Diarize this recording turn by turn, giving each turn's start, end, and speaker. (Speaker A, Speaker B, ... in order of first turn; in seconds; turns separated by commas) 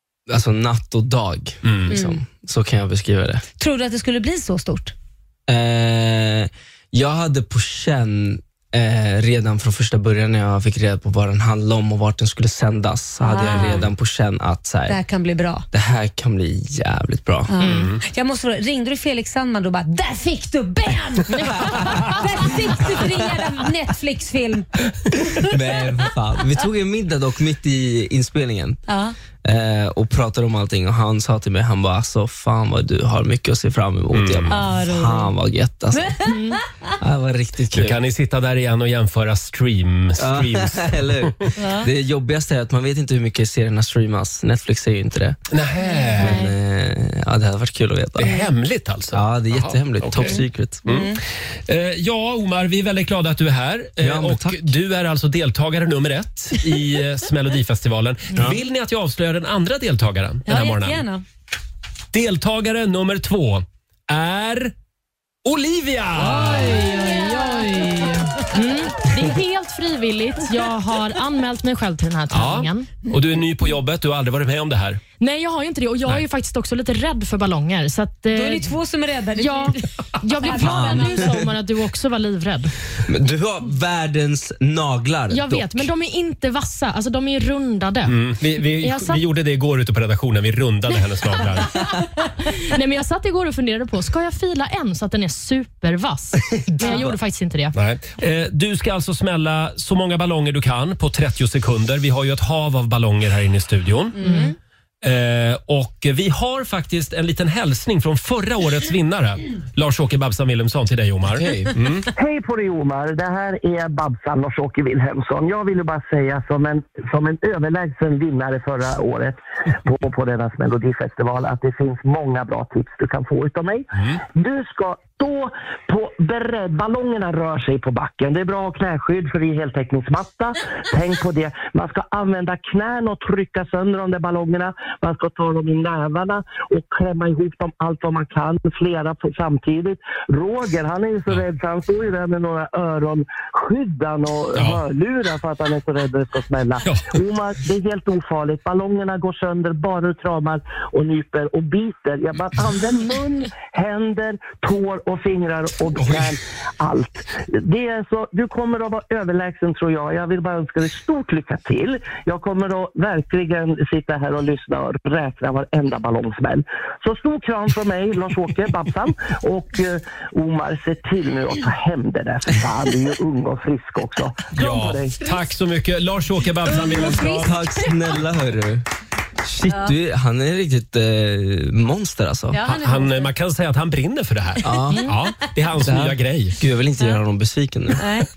Speaker A: 0.3-3.4, Speaker B: 1.6-1.9, Speaker C: 1.9-2.2, Speaker C: 3.6-4.9, Speaker A: 5.5-15.0, Speaker C: 13.2-13.9, Speaker B: 13.4-13.9, Speaker C: 14.9-15.7, Speaker A: 15.7-17.5, Speaker C: 17.5-24.7, Speaker D: 17.6-17.9, Speaker B: 17.6-18.0, Speaker D: 21.4-22.2, Speaker A: 22.8-23.4, Speaker C: 25.3-25.8, Speaker A: 25.4-28.8, Speaker C: 28.9-29.1, Speaker A: 29.4-36.2, Speaker B: 34.1-34.5, Speaker C: 34.5-35.3, Speaker C: 35.9-36.9, Speaker D: 36.2-36.6, Speaker A: 37.0-38.0, Speaker B: 37.7-41.5, Speaker A: 40.2-45.4, Speaker C: 41.6-41.9, Speaker B: 45.5-46.4, Speaker C: 45.9-46.3, Speaker D: 46.2-46.5, Speaker A: 46.2-48.4, Speaker B: 48.2-61.0, Speaker A: 49.1-50.9, Speaker C: 50.2-51.2, Speaker A: 54.0-54.7, Speaker A: 58.3-58.6, Speaker C: 60.5-61.2, Speaker B: 62.1-64.7, Speaker B: 65.4-66.8, Speaker D: 66.2-72.9, Speaker C: 66.8-68.1, Speaker B: 72.3-75.0, Speaker D: 75.2-78.7, Speaker C: 78.3-79.8, Speaker D: 79.4-82.7, Speaker C: 80.4-81.3, Speaker A: 80.6-81.5, Speaker A: 83.1-85.9, Speaker D: 85.3-89.2, Speaker B: 88.0-91.7, Speaker D: 92.4-97.8, Speaker B: 96.8-97.2, Speaker B: 97.7-104.2, Speaker C: 104.2-104.5, Speaker D: 104.2-104.5, Speaker B: 105.0-112.1, Speaker A: 111.2-111.7, Speaker E: 112.1-175.2, Speaker B: 124.0-124.2, Speaker B: 144.6-144.8, Speaker B: 146.8-147.2, Speaker B: 156.0-156.3, Speaker B: 174.5-177.6, Speaker C: 176.6-178.2, Speaker A: 177.4-178.8, Speaker A: 179.4-182.6, Speaker C: 179.7-179.9, Speaker C: 182.5-183.3, Speaker B: 182.6-186.6, Speaker A: 184.6-185.0, Speaker A: 185.8-188.1, Speaker C: 188.0-188.3